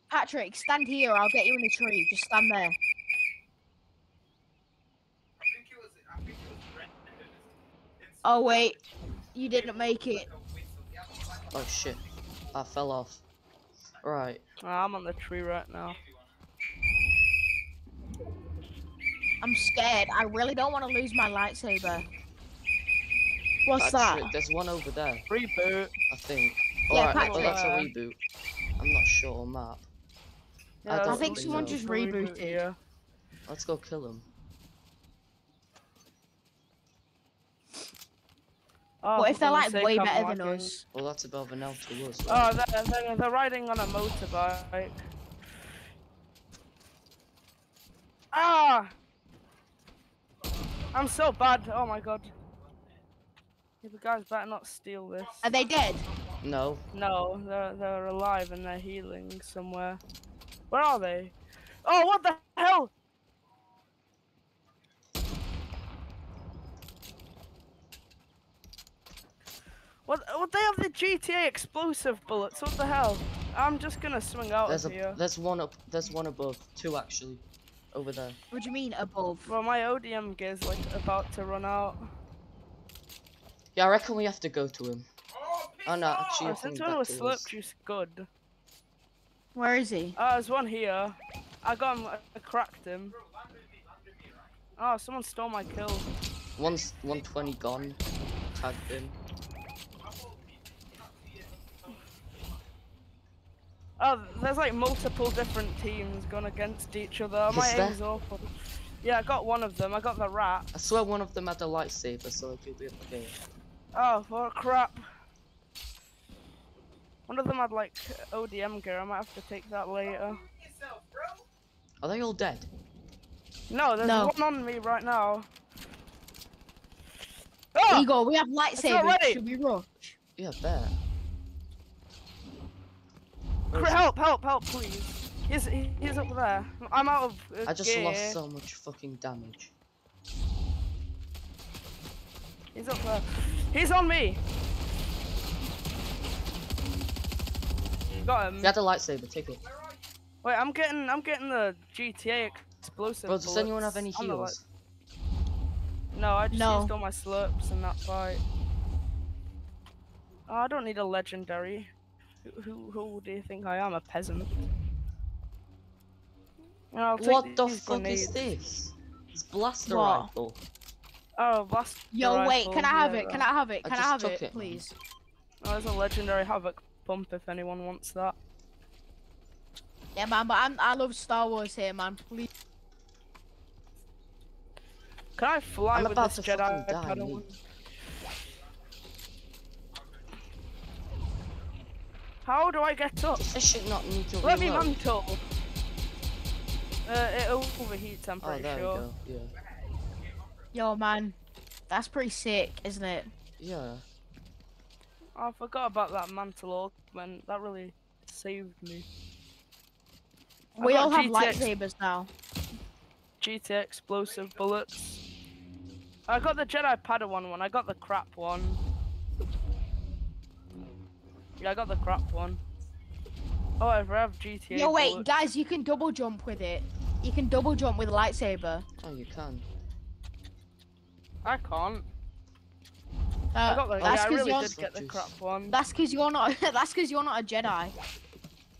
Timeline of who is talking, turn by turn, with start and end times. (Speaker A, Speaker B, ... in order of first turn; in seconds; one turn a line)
Speaker A: 0.1-2.8
Speaker A: 8.2-8.8
Speaker A: 9.3-10.3
Speaker B: 11.5-12.0
Speaker B: 12.5-13.2
Speaker B: 14.0-14.4
Speaker C: 14.6-16.0
Speaker A: 19.4-22.1
Speaker A: 23.6-24.3
Speaker B: 23.8-25.2
Speaker C: 25.3-25.9
Speaker B: 26.1-28.2
Speaker A: 26.9-27.6
Speaker C: 27.1-27.9
Speaker B: 28.8-29.9
Speaker C: 30.8-32.8
Speaker B: 30.9-31.8
Speaker A: 31.1-32.6
Speaker B: 33.5-34.3
Speaker C: 39.0-40.7
Speaker A: 39.1-40.8
Speaker B: 40.9-42.5
Speaker C: 42.3-45.1
Speaker C: 48.3-48.9
Speaker C: 50.9-52.3
Speaker C: 53.8-55.5
Speaker A: 55.4-56.0
Speaker B: 56.4-56.8
Speaker C: 56.9-60.0
Speaker C: 60.7-61.3
Speaker C: 61.8-62.9
Speaker C: 70.0-75.2
Speaker B: 74.7-78.4
Speaker A: 78.5-79.5
Speaker C: 79.5-82.0
Speaker B: 83.8-85.1
Speaker B: 85.8-87.5
Speaker C: 86.4-88.3
Speaker A: 89.5-90.2
Speaker C: 90.2-93.2
Speaker C: 94.8-96.1
Speaker B: 96.6-98.0
Speaker B: 98.5-99.2
Speaker C: 104.0-108.5
Speaker B: 107.5-108.0
Speaker C: 109.0-110.7
Speaker B: 110.7-113.3
Speaker C: 113.9-115.1
Speaker C: 117.3-120.4
Speaker B: 122.0-122.7
Speaker C: 123.7-125.5
Speaker A: 124.0-124.3
Speaker C: 127.7-128.1
Speaker A: 127.9-130.2
Speaker C: 128.8-129.4
Speaker B: 130.4-131.0
Speaker B: 133.7-134.1
Speaker C: 133.7-138.4
Speaker B: 137.7-139.7
Speaker C: 142.7-144.4
Speaker C: 148.2-148.7
Speaker B: 148.6-149.6
Speaker C: 150.4-154.6
Speaker B: 153.3-154.6
Speaker C: 156.1-158.4
Speaker A: 156.5-156.9
Speaker C: 160.5-161.9
Speaker C: 162.4-164.5
Speaker C: 166.9-168.4
Speaker B: 167.2-170.6
Speaker A: 169.9-170.3
Speaker C: 171.4-173.4
Speaker A: 172.1-174.9
Speaker B: 173.8-174.8
Speaker C: 175.6-178.3
Speaker A: 180.2-182.5
Speaker C: 185.4-187.6
Speaker B: 185.9-187.4
Speaker C: 192.4-193.5
Speaker B: 193.4-195.0
Speaker C: 194.4-195.4
Speaker C: 197.1-199.0
Speaker B: 198.4-199.5
Speaker A: 200.7-201.4
Speaker A: 201.9-203.3
Speaker B: 203.6-204.0
Speaker C: 205.3-209.1
Speaker C: 210.8-211.7
Speaker A: 210.8-212.3
Speaker C: 213.4-215.2
Speaker C: 216.3-218.8
Speaker C: 221.6-222.6
Speaker C: 223.8-225.3
Speaker A: 224.7-228.8
Speaker B: 229.0-229.6
Speaker C: 231.4-232.0
Speaker A: 233.5-234.8
Speaker C: 233.7-235.8
Speaker B: 234.0-235.3
Speaker A: 235.7-237.9